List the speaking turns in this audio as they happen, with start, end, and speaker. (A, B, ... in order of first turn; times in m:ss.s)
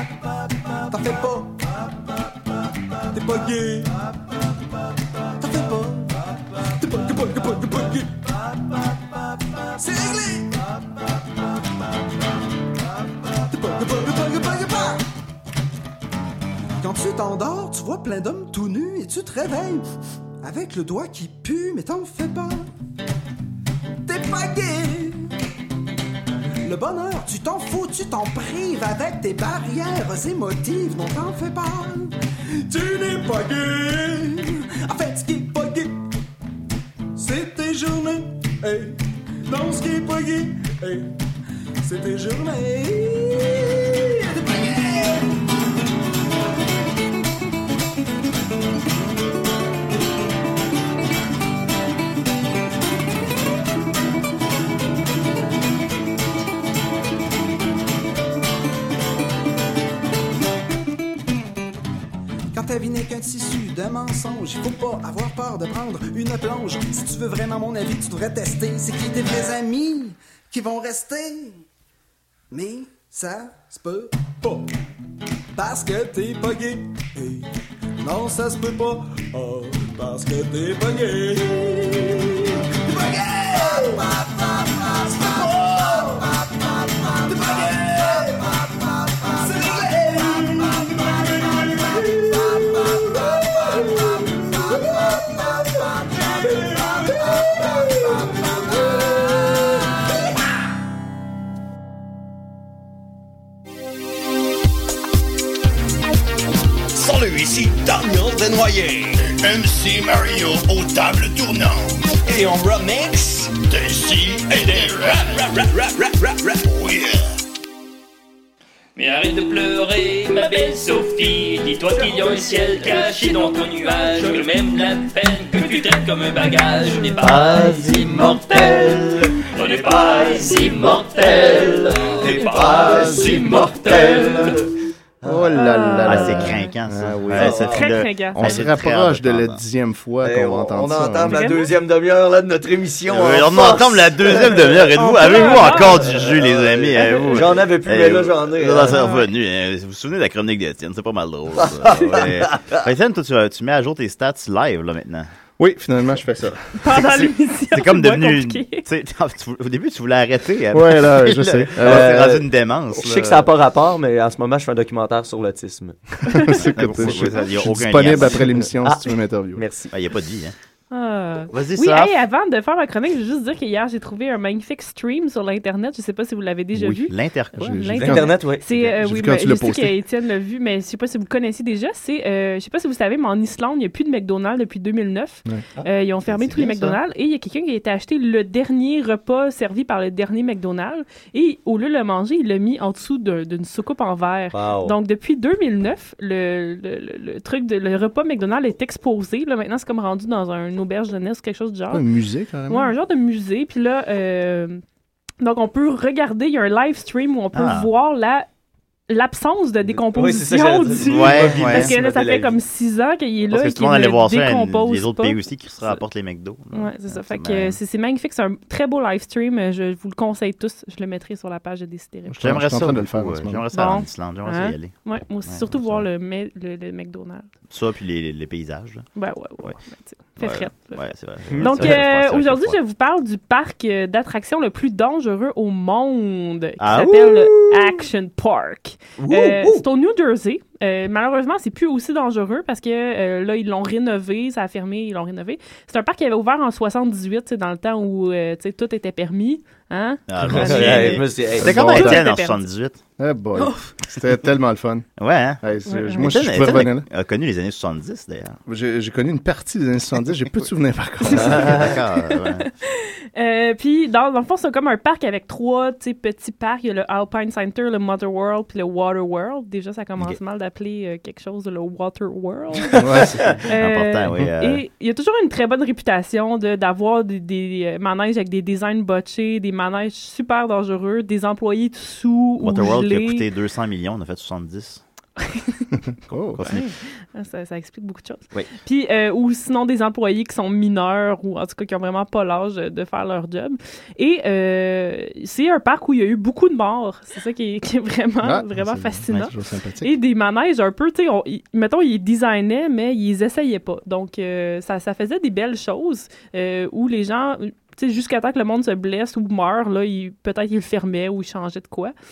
0:00.9-0:01.7 A
0:03.1-0:04.0 A
0:05.4-0:08.2 A
0:09.8-0:10.6 A
0:13.4-0:15.1 A
0:16.8-0:19.8 A
0:20.4-0:22.7 A
0:24.0-0:25.3 A
0:26.6-0:36.0 A
0:37.1-0:41.1 A
0:41.8-0:45.3 A
1:02.5-1:11.6 A
1:12.5-1:14.7 A
1:15.5-1:26.4 A
1:27.1-1:28.5 A
1:29.2-1:39.3 A
1:46.9-1:57.2 B
1:59.0-2:08.9 C
2:02.0-2:02.4 B
2:07.5-2:08.1 D
2:09.6-2:12.1 C
2:09.8-2:10.6 B
2:10.9-2:14.6 D
2:12.8-2:13.4 B
2:12.8-2:13.4 E
2:15.2-2:17.7 E
2:15.5-2:16.7 F
2:16.0-2:19.6 G
2:17.3-2:17.8 D
2:17.6-2:18.6 F
2:18.3-2:21.4 E
2:20.2-2:29.0 D
2:21.3-2:21.7 F
2:23.1-2:35.3 G
2:24.9-2:26.1 F
2:28.9-2:29.3 F
2:31.6-2:32.8 D
2:35.6-2:36.6 E
2:36.8-2:38.8 F
2:36.9-2:43.5 G
2:40.7-2:42.2 E
2:41.8-2:46.0 D
2:46.2-2:49.6 E
2:46.4-2:46.6 F
2:46.7-2:48.7 G
2:48.8-2:49.9 D
2:49.9-2:50.5 G
2:50.9-3:22.0 F
2:51.5-2:52.1 G
2:56.8-2:58.1 G
2:57.6-2:58.4 E
2:58.0-2:58.6 D
2:58.9-3:00.0 E
3:06.3-3:07.0 G
3:14.5-3:15.0 D
3:21.9-3:22.9 E
3:22.7-3:24.8 F
3:25.4-3:28.5 F
3:27.5-3:27.9 G
3:29.1-3:36.0 F
3:29.9-3:32.5 D
3:31.0-3:31.9 G
3:33.5-3:37.8 G
3:36.7-3:42.6 F
3:42.3-3:43.6 E
3:42.4-3:44.9 G
3:43.7-3:47.5 F
3:45.4-3:46.1 G
3:47.7-3:49.0 G
3:49.2-3:51.1 F
3:50.4-3:52.8 G
3:51.5-3:52.1 D
3:51.6-4:12.6 F
3:56.8-3:58.0 G
3:59.2-3:59.8 D
4:10.3-4:13.0 G
4:10.5-4:12.1 D
4:11.6-4:12.2 E
4:13.2-4:15.1 E
4:15.2-4:15.6 G
4:15.6-4:17.1 E
4:15.9-4:16.3 F
4:16.1-4:18.6 G
4:18.7-4:21.9 E
4:21.3-4:43.4 F
4:21.3-4:22.7 G
4:32.9-4:33.6 E
4:33.7-4:34.8 G
4:42.6-4:45.0 G
4:45.4-4:45.8 F
4:46.3-4:46.6 E
4:46.5-4:46.8 G
4:46.6-5:12.1 F
4:58.4-5:00.1 E